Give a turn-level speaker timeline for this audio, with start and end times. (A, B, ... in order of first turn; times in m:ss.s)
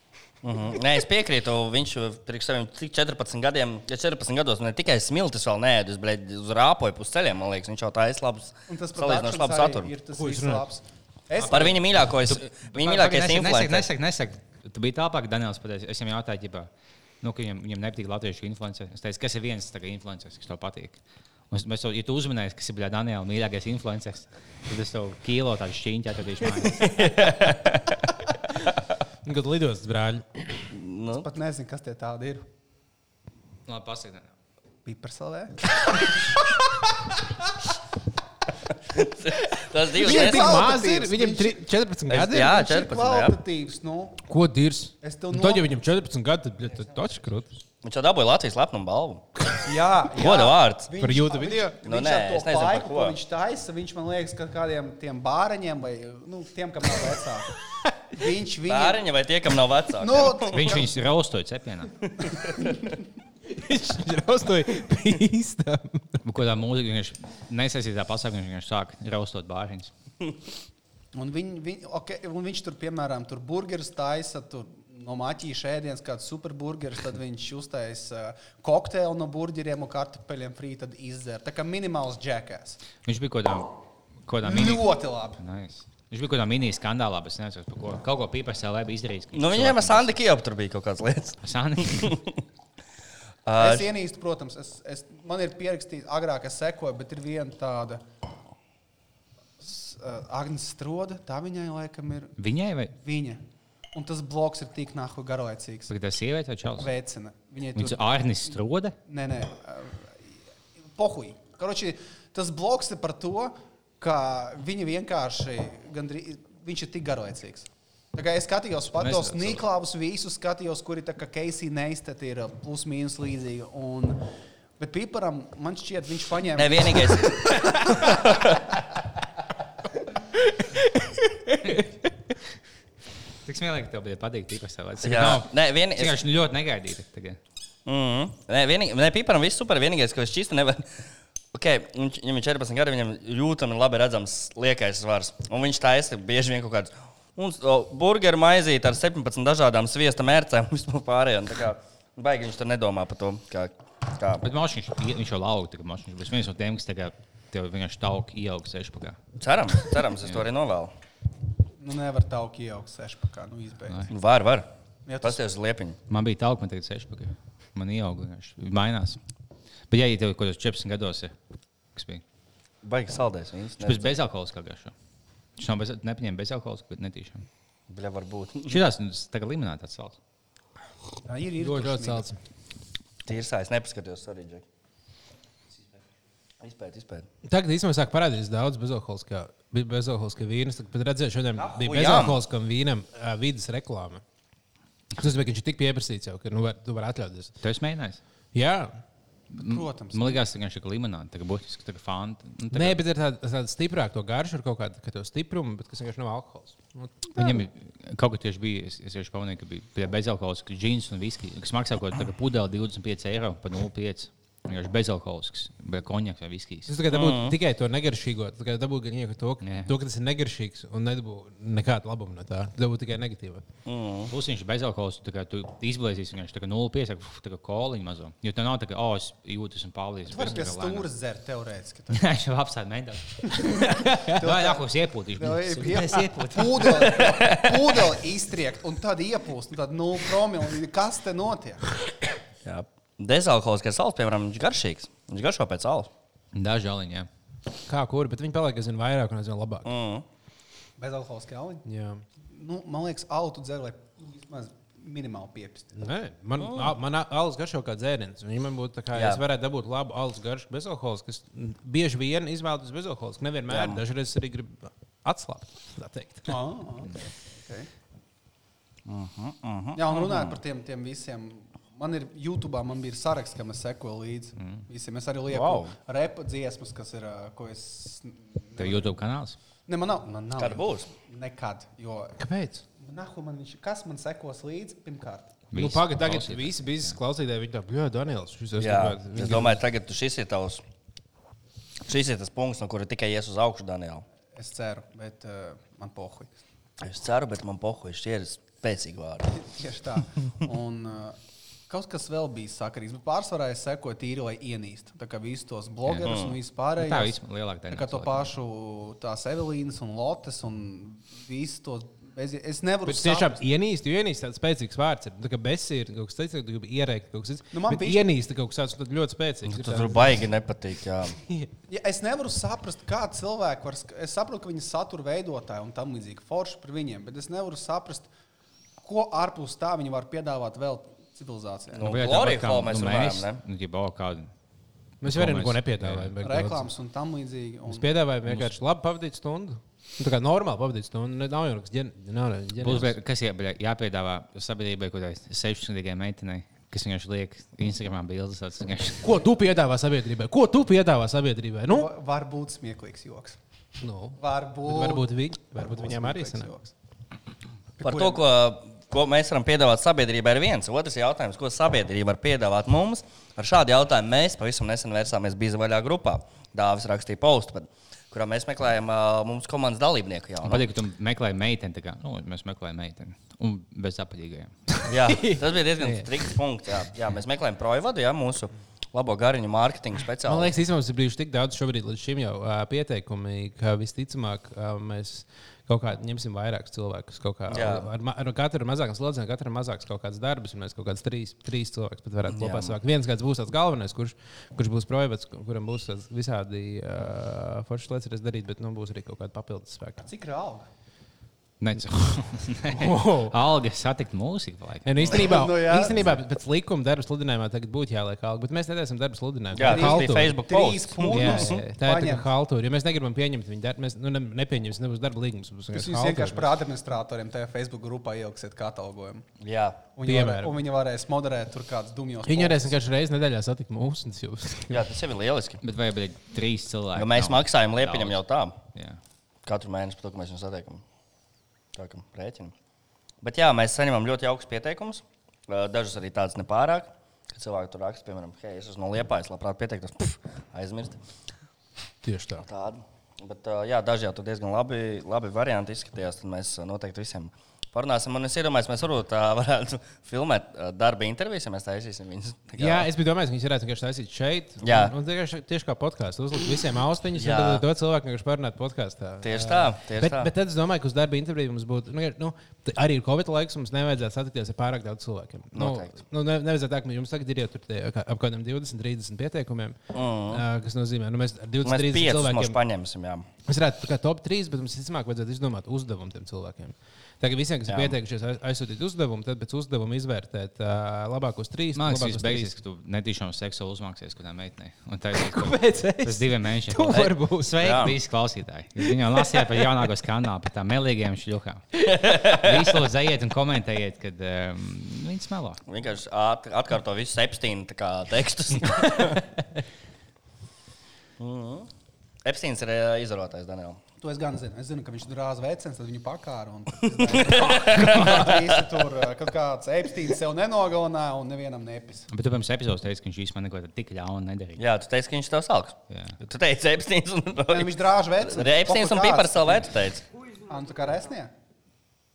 0:00.4-0:09.9 A
0:08.7-0:11.8 B
0:10.1-0:10.7 C
0:11.4-0:16.7 D
0:11.5-0:13.9 A
0:17.2-0:21.0 D
0:21.5-0:27.1 D
0:26.7-0:28.0 A
0:29.2-0:30.3 C
0:30.7-0:31.3 A
0:31.2-0:32.5 B
0:33.7-0:34.3 D
0:34.8-0:36.2 B
0:38.9-0:40.7 A
0:40.0-0:42.7 C
0:40.0-0:41.6 B
0:42.1-0:43.4 A
0:42.3-0:44.2 B
0:44.3-0:47.6 C
0:45.0-0:45.7 B
0:47.8-0:49.2 A
0:49.6-0:57.6 B
0:50.2-0:50.9 A
0:51.0-0:51.8 C
0:51.8-0:53.2 A
0:58.1-0:59.1 B
0:58.7-1:00.6 A
1:00.0-1:01.0 B
1:00.4-1:02.1 D
1:02.5-1:02.9 B
1:03.5-1:06.2 C
1:06.2-1:09.9 D
1:11.1-1:22.8 B
1:23.0-1:23.7 D
1:24.3-1:30.2 D
1:24.4-1:25.4 B
1:29.3-1:32.3 A
1:31.4-1:32.2 D
1:33.5-1:33.9 A
1:33.6-1:38.0 B
1:39.6-1:42.4 B
1:42.4-1:42.9 D
1:42.9-1:45.9 B
1:45.9-1:46.9 D
1:46.8-1:48.0 B
1:47.8-1:49.0 D
1:49.1-1:50.3 B
1:51.0-2:04.2 B
1:59.0-1:59.6 D
2:04.8-2:08.5 B
2:06.6-2:08.6 A
2:10.6-2:11.9 C
2:13.4-2:17.4 D
2:15.0-2:16.2 A
2:17.9-2:21.0 A
2:21.5-2:34.5 A
2:34.4-2:39.2 D
2:39.4-2:40.9 A
2:41.8-2:44.1 B
2:44.1-2:44.7 A
2:45.1-2:45.4 B
2:45.2-2:46.0 A
2:46.1-2:49.2 D
2:49.9-2:51.3 D
2:52.0-2:52.2 D
2:52.8-2:54.1 A
2:53.8-2:54.9 D
2:55.6-2:57.4 D
2:57.9-2:58.8 A
2:58.7-3:00.2 D
3:01.2-3:02.2 B
3:01.6-3:02.4 C
3:03.3-3:04.6 A
3:06.6-3:07.3 A
3:07.4-3:14.2 C
3:11.6-3:12.2 B
3:11.8-3:12.4 A
3:15.2-3:17.6 C
3:17.6-3:18.2 D
3:18.5-3:19.0 C
3:19.5-3:23.0 D
3:19.6-3:20.4 B
3:22.7-3:27.3 C
3:27.4-3:37.0 D
3:36.9-3:43.6 C
3:37.1-3:37.6 A
3:39.6-3:40.0 D
3:43.8-3:44.3 A
3:44.3-3:51.1 D
3:50.3-3:52.2 B
3:52.1-3:57.4 D
3:53.5-4:01.9 B
3:54.1-3:54.4 C
3:57.2-3:57.7 A
4:02.6-4:06.1 A
4:06.5-4:07.3 D
4:07.9-4:09.9 C
4:09.8-4:10.2 A
4:11.0-4:11.8 B
4:11.8-4:12.2 C
4:12.5-4:16.0 B
4:16.0-4:26.6 C
4:16.6-4:16.9 A
4:19.1-4:19.4 A
4:23.7-4:24.0 A
4:26.5-4:27.9 B
4:29.1-4:30.6 A
4:30.0-4:39.1 B
4:35.5-4:36.0 A
4:38.8-4:39.6 D
4:39.9-4:42.4 B
4:40.6-4:41.1 A
4:42.4-4:42.8 C
4:43.0-4:45.6 B
4:45.7-4:47.2 D
4:45.7-4:49.8 C
4:48.8-4:50.8 A
4:52.1-4:54.2 A
4:54.6-4:56.5 B
4:57.0-4:59.5 A
4:59.5-5:01.4 B
5:01.9-5:07.4 B
5:06.1-5:06.4 D
5:06.2-5:06.6 A
5:07.0-5:08.5 D
5:07.9-5:13.6 B
5:13.0-5:20.4 C
5:17.7-5:18.3 B
5:19.6-5:21.4 A
5:21.4-5:21.7 C
5:21.9-5:28.3 B
5:29.0-5:32.1 B
5:31.9-5:33.6 A
5:32.0-5:34.5 D
5:35.2-5:36.9 C
5:35.2-5:36.4 D
5:36.4-5:38.1 B
5:37.9-5:43.2 C
5:42.8-5:49.4 D
5:49.2-5:52.1 C
5:51.9-5:53.6 B
5:54.0-5:56.7 C
5:54.4-5:56.9 B
5:58.0-5:58.4 B
5:58.0-6:10.8 A
6:10.6-6:15.0 D
6:15.1-6:20.7 A
6:15.2-6:16.3 C
6:20.4-6:40.3 C
6:27.7-6:28.1 A
6:32.5-6:33.0 A
6:40.2-6:40.9 B
6:41.8-6:45.4 D
6:42.9-6:43.6 C
6:45.0-6:50.6 C
6:45.3-6:46.3 B
6:49.7-6:51.8 A
6:49.8-6:52.5 B
6:51.3-6:56.8 C
6:55.9-6:59.5 B
6:59.6-7:00.0 A
7:00.2-7:03.0 B
7:00.2-7:00.8 C
7:02.5-7:05.1 C
7:04.9-7:05.8 A
7:05.8-7:09.2 D
7:07.2-7:08.8 A
7:09.6-7:11.0 A
7:12.0-7:12.7 A
7:13.4-7:21.2 A
7:22.2-7:22.7 C
7:22.6-7:33.1 A
7:32.8-7:52.8 C
7:34.8-7:35.1 A
7:37.4-7:37.8 A
7:39.4-7:40.5 A
7:45.7-7:46.1 A
7:50.1-7:50.6 A
7:51.8-7:53.5 A
7:53.7-8:02.8 C
7:57.9-7:58.2 A
8:02.0-8:15.8 D
8:05.4-8:07.9 C
8:07.1-8:08.2 A
8:09.0-8:09.9 C
8:12.1-8:13.0 A
8:15.9-8:19.4 A
8:21.4-8:21.9 A
8:22.4-8:24.0 A
8:24.2-8:32.3 B
8:27.3-8:28.8 A
8:32.3-8:34.8 D
8:34.8-8:40.3 A
8:36.1-8:36.4 D
8:37.7-8:39.9 B
8:40.7-8:41.5 B